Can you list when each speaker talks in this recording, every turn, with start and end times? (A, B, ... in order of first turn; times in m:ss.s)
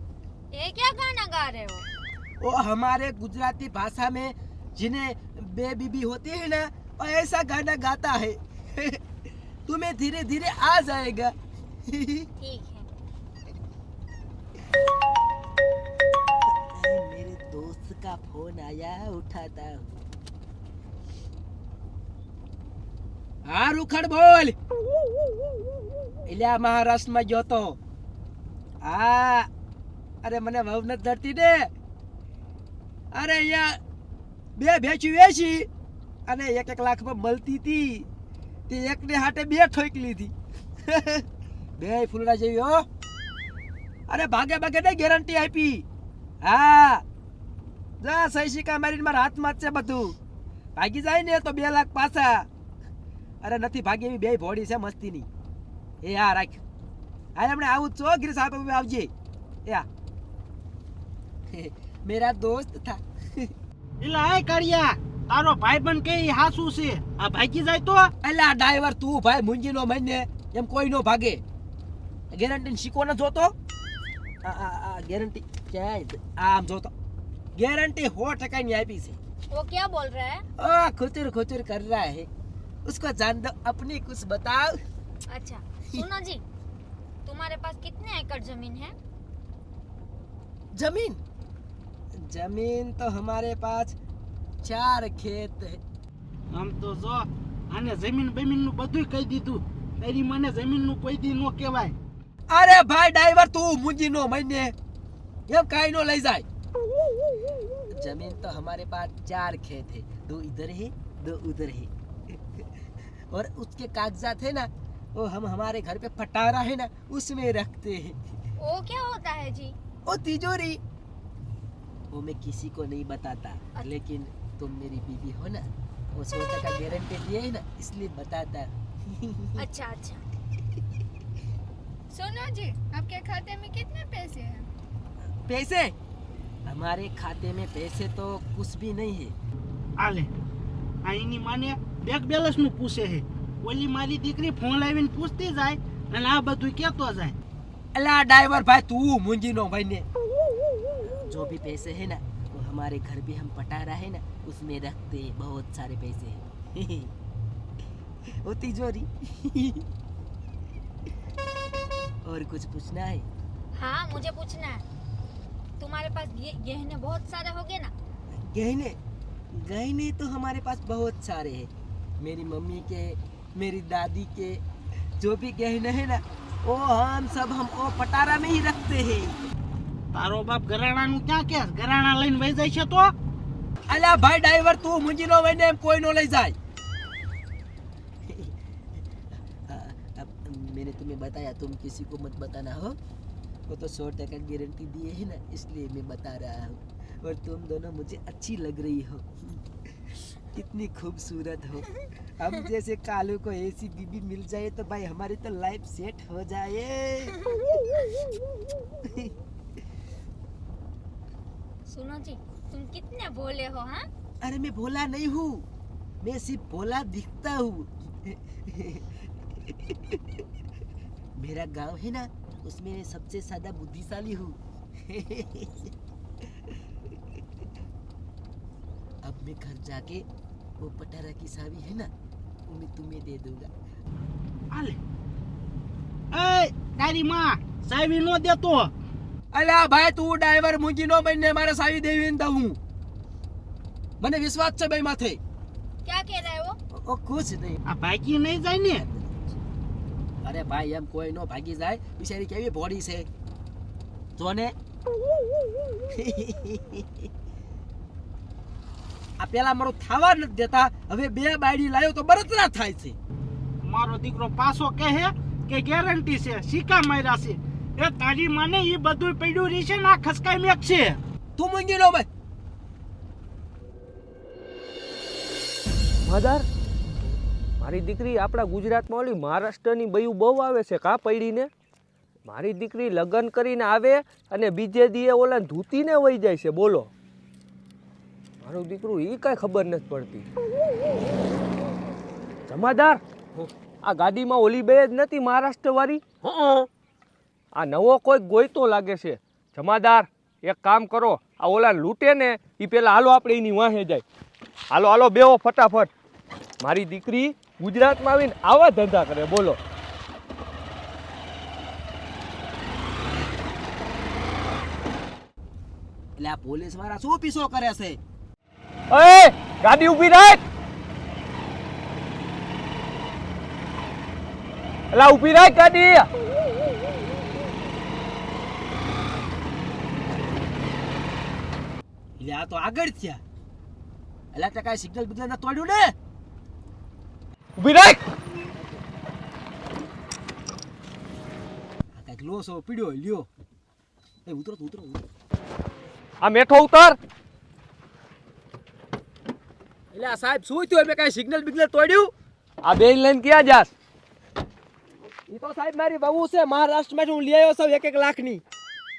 0:00.5-0:01.9 A
0:02.4-0:09.0 B
0:09.7-0:11.3 B
0:11.9-0:12.3 B
0:12.4-0:12.9 A
0:16.6-0:20.0 B
0:23.5-0:24.6 B
0:26.3-0:27.8 B
0:28.8-0:29.5 B
0:30.2-0:31.7 B
0:33.1-0:33.8 B
0:34.6-0:35.7 B
0:36.3-0:38.1 B
0:38.7-0:40.3 B
0:40.8-0:41.2 B
0:41.8-0:42.8 B
0:44.1-0:45.8 B
0:46.4-0:47.0 B
0:48.0-0:50.2 B
0:50.8-0:52.5 B
0:53.4-0:55.3 B
0:56.0-0:56.6 B
0:57.4-0:59.1 B
1:01.5-1:03.5 B
1:04.0-1:08.1 C
1:08.2-1:11.4 B
1:12.3-1:13.5 B
1:14.4-1:16.9 B
1:17.6-1:19.2 B
1:19.5-1:20.4 A
1:20.6-1:22.3 B
1:22.8-1:24.8 B
1:25.3-1:26.4 A
1:27.2-1:28.9 A
1:30.7-1:31.2 B
1:32.2-1:34.0 B
1:34.6-1:35.8 B
1:36.5-1:42.0 C
1:42.5-1:44.7 B
1:45.5-1:46.4 B
1:47.9-1:58.2 B
1:58.6-1:59.8 A
2:00.1-2:00.8 B
2:02.1-2:09.6 B
2:09.6-2:10.2 A
2:12.1-2:14.7 D
2:15.4-2:15.9 B
2:16.7-2:19.3 B
2:20.0-2:20.3 C
2:21.0-2:27.4 C
2:28.0-2:30.0 B
2:31.0-2:37.1 B
2:38.4-2:39.9 B
2:42.2-2:43.3 B
2:43.7-2:44.8 A
2:45.8-2:47.9 A
2:48.3-2:49.0 B
2:49.5-2:54.6 B
2:55.2-2:59.4 B
3:00.1-3:03.1 C
3:03.9-3:06.6 B
3:08.3-3:08.6 B
3:09.7-3:13.0 B
3:13.7-3:19.6 B
3:20.4-3:27.3 B
3:29.0-3:29.3 B
3:31.9-3:34.1 A
3:34.4-3:35.6 B
3:36.2-3:40.4 B
3:41.4-3:45.9 B
3:49.2-3:50.2 B
3:50.8-3:52.1 B
3:52.7-3:53.7 B
3:54.7-3:55.0 C
3:56.3-3:58.9 C
3:59.5-4:02.8 B
4:04.2-4:05.4 B
4:06.0-4:06.8 A
4:06.9-4:07.8 B
4:07.8-4:09.1 C
4:10.4-4:13.3 B
4:14.4-4:14.8 B
4:16.1-4:17.3 B
4:19.4-4:23.2 B
4:23.8-4:31.2 C
4:31.6-4:32.3 B
4:36.2-4:36.6 E
4:37.8-4:41.7 E
4:42.4-4:47.1 E
4:48.6-4:50.4 E
4:52.7-4:53.2 E
4:54.0-4:56.2 E
4:57.7-5:04.2 E
5:04.9-5:06.1 E
5:06.8-5:09.8 E
5:16.4-5:18.2 B
5:19.1-5:20.6 E
5:25.1-5:26.3 E
5:32.4-5:33.4 B
5:34.5-5:36.1 B
5:37.8-5:38.2 E
5:42.1-5:43.5 B
5:44.4-5:45.2 B
5:46.4-5:47.2 E
5:50.1-5:52.3 B
5:52.8-5:53.9 E
5:55.5-5:58.6 B